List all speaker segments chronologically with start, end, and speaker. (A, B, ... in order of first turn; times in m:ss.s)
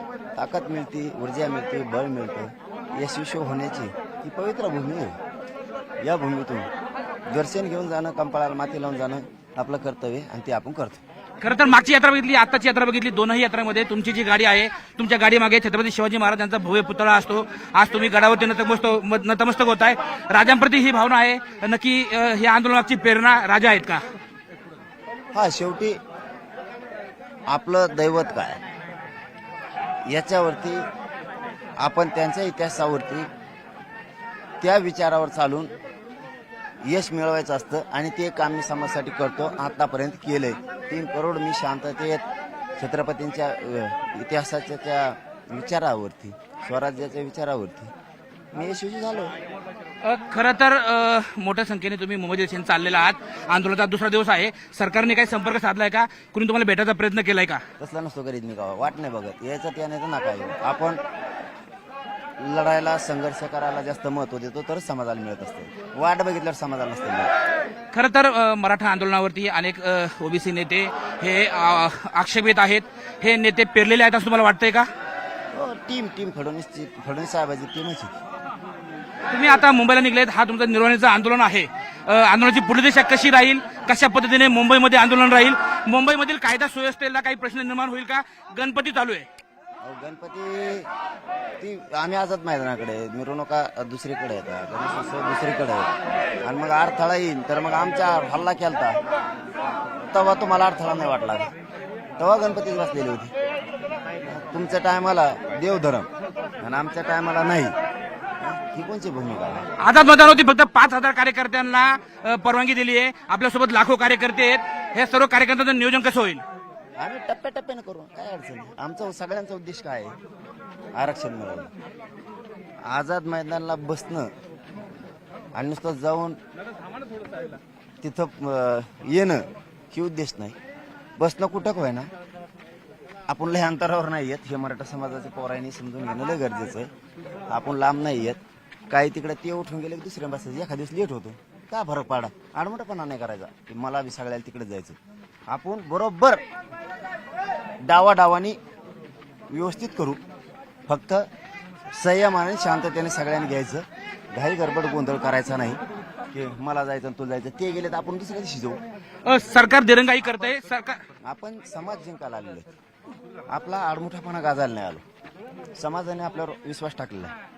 0:00.4-0:05.2 A
0:06.0-0:06.7 A
0:07.3-0:11.0 A
0:11.4-0:24.0 B
0:25.3-0:26.0 A
0:27.5-0:28.6 A
0:30.0-0:30.9 A
0:31.8-0:33.3 A
0:34.6-0:35.7 A
0:36.8-0:42.2 A
0:42.8-0:47.9 A
0:48.5-0:49.4 A
0:50.0-0:57.6 B
0:57.8-1:01.0 A
1:02.4-1:07.3 A
1:07.9-1:14.9 B
1:15.5-1:18.2 A
1:19.3-1:29.3 B
1:29.8-1:30.9 A
1:31.6-1:39.0 A
1:40.1-1:41.5 A
1:42.2-1:43.3 A
1:44.3-1:47.8 A
1:48.4-1:49.7 A
1:49.8-1:56.4 B
1:57.0-2:00.2 A
2:00.9-2:01.7 A
2:02.8-2:04.3 A
2:05.5-2:06.4 A
2:08.0-2:10.6 A
2:11.2-2:12.1 A
2:13.3-2:16.9 A
2:17.5-2:25.0 A
2:25.5-2:26.4 A
2:27.8-2:28.6 A
2:29.5-2:30.2 A
2:30.9-2:31.3 A
2:31.9-2:38.8 A
2:39.2-2:41.0 B
2:41.2-2:42.7 A
2:43.5-2:45.0 A
2:45.8-2:47.3 A